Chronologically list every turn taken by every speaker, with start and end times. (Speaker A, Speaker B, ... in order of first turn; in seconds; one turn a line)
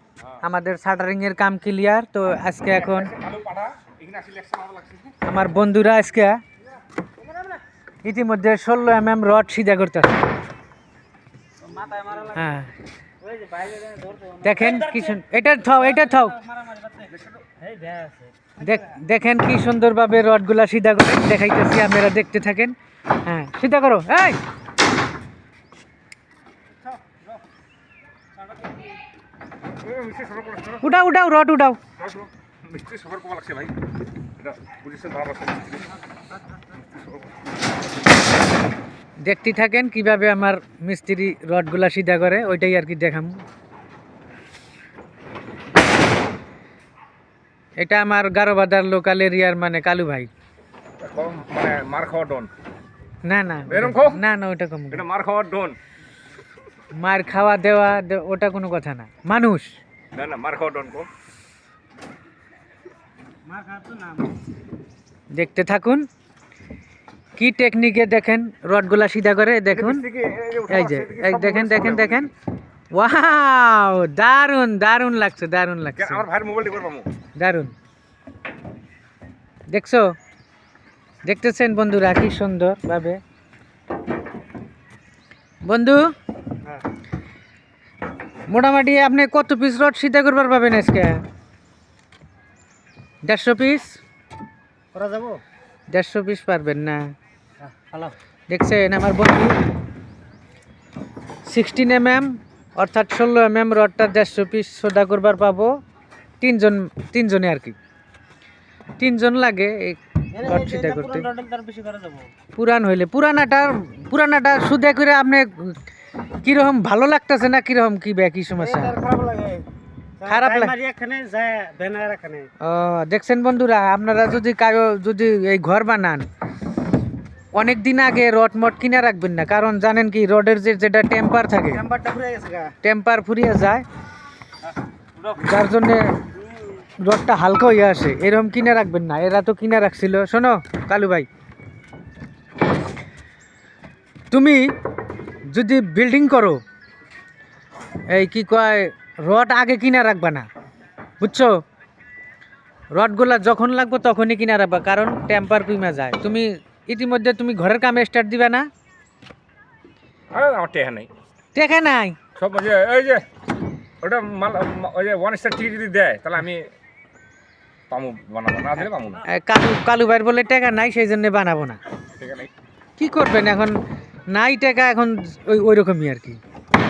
Speaker A: 0.4-3.1
Speaker B: 2.8-5.2
Speaker A: 5.2-6.4
Speaker A: 8.0-10.2
Speaker C: 11.6-12.4
Speaker A: 12.3-12.7
Speaker C: 13.2-15.1
Speaker A: 14.4-16.4
Speaker C: 16.5-18.3
Speaker A: 18.6-24.4
Speaker B: 29.8-30.9
Speaker A: 30.8-31.8
Speaker B: 32.0-33.8
Speaker B: 34.4-35.9
Speaker B: 37.0-37.3
Speaker A: 39.2-43.4
Speaker A: 47.8-50.3
Speaker B: 51.0-52.5
Speaker A: 53.2-55.0
Speaker B: 53.7-54.2
Speaker B: 54.9-55.8
Speaker A: 56.9-59.8
Speaker B: 60.1-61.1
Speaker C: 63.5-64.3
Speaker A: 65.3-66.1
Speaker A: 67.4-70.0
Speaker B: 69.7-72.3
Speaker A: 70.7-72.3
Speaker A: 72.9-76.3
Speaker B: 76.0-77.1
Speaker A: 77.4-77.8
Speaker A: 79.7-80.1
Speaker A: 81.2-83.2
Speaker A: 85.7-86.1
Speaker A: 88.5-91.2
Speaker A: 93.2-94.0
Speaker C: 94.9-95.4
Speaker A: 95.9-97.1
Speaker C: 97.7-98.1
Speaker A: 98.5-99.6
Speaker A: 101.5-105.8
Speaker A: 106.4-107.8
Speaker A: 109.0-111.3
Speaker C: 110.4-112.3
Speaker A: 112.5-115.8
Speaker A: 116.4-119.0
Speaker C: 118.6-119.7
Speaker C: 120.2-122.5
Speaker A: 120.3-120.7
Speaker A: 122.6-126.3
Speaker A: 127.5-131.8
Speaker C: 131.7-132.8
Speaker A: 132.8-133.8
Speaker A: 135.3-136.2
Speaker A: 137.0-141.3
Speaker A: 144.3-144.7
Speaker A: 145.5-146.6
Speaker A: 148.1-150.5
Speaker A: 151.2-151.6
Speaker A: 152.9-158.7
Speaker B: 160.3-161.1
Speaker A: 161.5-162.2
Speaker B: 162.4-163.3
Speaker B: 164.0-166.7
Speaker B: 167.9-169.2
Speaker A: 169.3-171.8
Speaker B: 172.2-172.5
Speaker A: 173.0-176.4